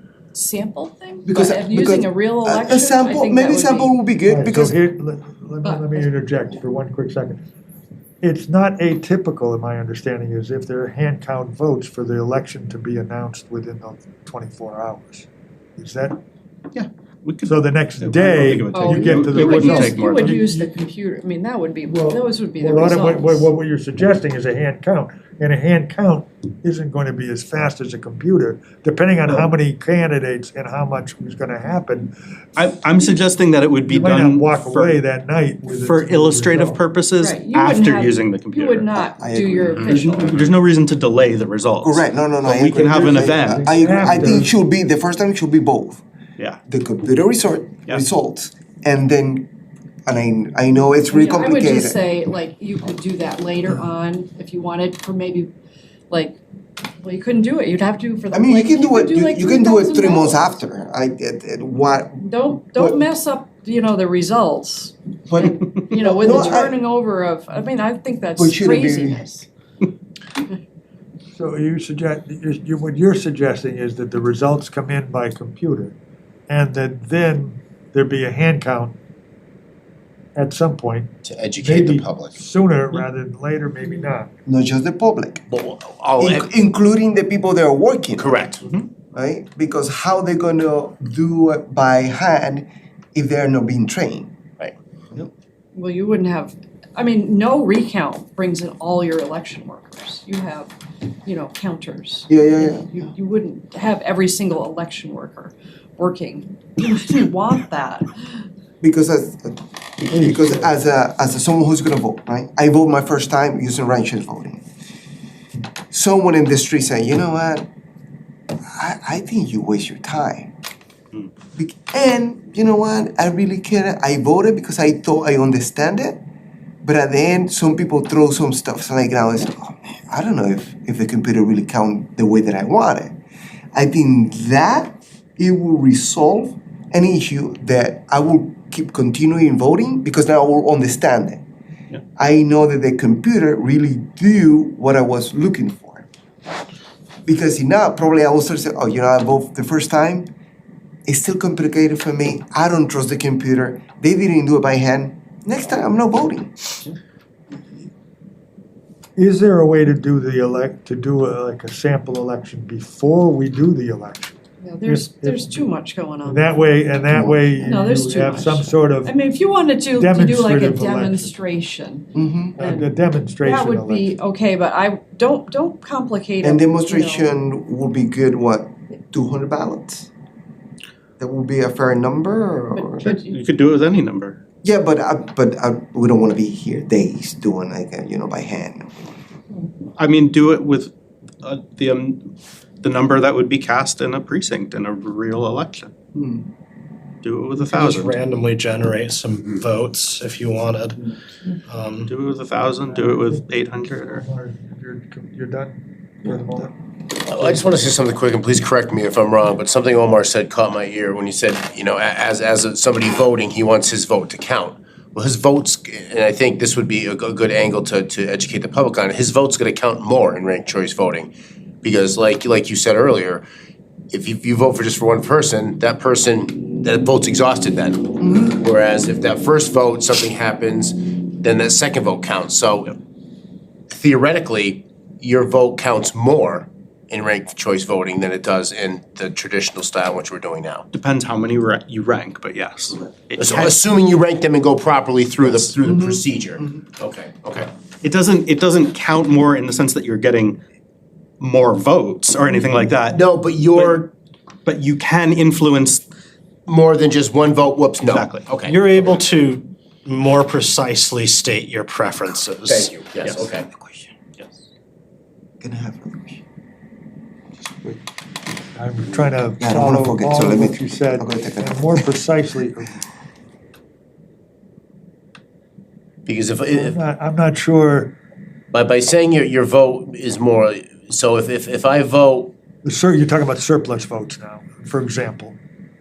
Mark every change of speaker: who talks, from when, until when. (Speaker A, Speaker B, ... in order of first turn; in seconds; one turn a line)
Speaker A: 0.3-4.0
Speaker B: 1.2-4.8
Speaker C: 4.3-7.4
Speaker A: 5.6-6.1
Speaker C: 8.2-16.2
Speaker D: 16.7-20.4
Speaker C: 17.4-20.7
Speaker A: 18.7-23.5
Speaker C: 21.9-32.1
Speaker D: 32.5-35.0
Speaker C: 33.9-36.8
Speaker D: 35.6-38.9
Speaker A: 37.2-40.4
Speaker B: 38.9-40.2
Speaker D: 39.8-43.6
Speaker B: 41.8-46.0
Speaker C: 43.4-44.5
Speaker B: 46.7-49.5
Speaker B: 50.1-52.0
Speaker A: 51.1-55.5
Speaker A: 56.1-56.4
Speaker A: 56.9-60.5
Speaker B: 58.3-63.0
Speaker A: 62.2-69.5
Speaker B: 65.3-66.8
Speaker B: 68.4-69.2
Speaker C: 71.3-76.0
Speaker C: 76.5-78.9
Speaker C: 80.3-81.1
Speaker E: 81.2-82.4
Speaker C: 81.6-84.3
Speaker B: 84.5-85.4
Speaker E: 85.5-86.5
Speaker B: 86.2-88.4
Speaker E: 88.2-88.6
Speaker D: 88.6-88.9
Speaker B: 89.1-94.3
Speaker A: 95.7-100.7
Speaker A: 101.2-108.4
Speaker B: 102.3-103.1
Speaker B: 108.8-114.6
Speaker B: 115.9-117.7
Speaker B: 118.7-120.5
Speaker B: 121.6-126.2
Speaker B: 126.8-133.1
Speaker B: 133.7-141.4
Speaker B: 142.2-146.1
Speaker B: 147.2-150.3
Speaker B: 151.1-156.7
Speaker C: 159.2-165.6
Speaker A: 164.6-166.6
Speaker C: 166.2-169.1
Speaker B: 167.1-167.6
Speaker A: 167.6-177.3
Speaker C: 169.9-171.3
Speaker B: 172.1-172.6
Speaker C: 172.6-174.1
Speaker B: 176.4-180.1
Speaker B: 181.2-183.1
Speaker A: 182.8-183.4
Speaker D: 183.0-184.4
Speaker B: 184.6-189.2
Speaker D: 190.0-192.3
Speaker D: 192.8-195.9
Speaker B: 196.1-196.5
Speaker D: 197.2-198.2
Speaker F: 197.7-201.0
Speaker F: 201.7-202.1
Speaker D: 202.0-204.2
Speaker C: 204.1-206.7
Speaker E: 207.1-223.4
Speaker E: 224.1-233.0
Speaker B: 228.2-228.5
Speaker E: 233.9-240.8
Speaker D: 240.9-243.8
Speaker E: 243.4-247.7
Speaker D: 245.5-245.7
Speaker B: 245.8-246.2
Speaker D: 248.0-250.6
Speaker D: 251.4-253.2
Speaker E: 253.1-254.1
Speaker D: 253.7-254.1
Speaker D: 254.7-256.0
Speaker E: 256.6-259.2
Speaker D: 258.1-259.2
Speaker F: 258.7-262.8
Speaker E: 262.6-263.7
Speaker D: 263.2-263.5
Speaker F: 263.8-264.1
Speaker B: 265.6-266.4
Speaker C: 268.8-273.0
Speaker B: 269.6-272.1
Speaker E: 276.2-277.0
Speaker C: 276.9-278.1
Speaker E: 278.7-282.5
Speaker C: 282.8-285.6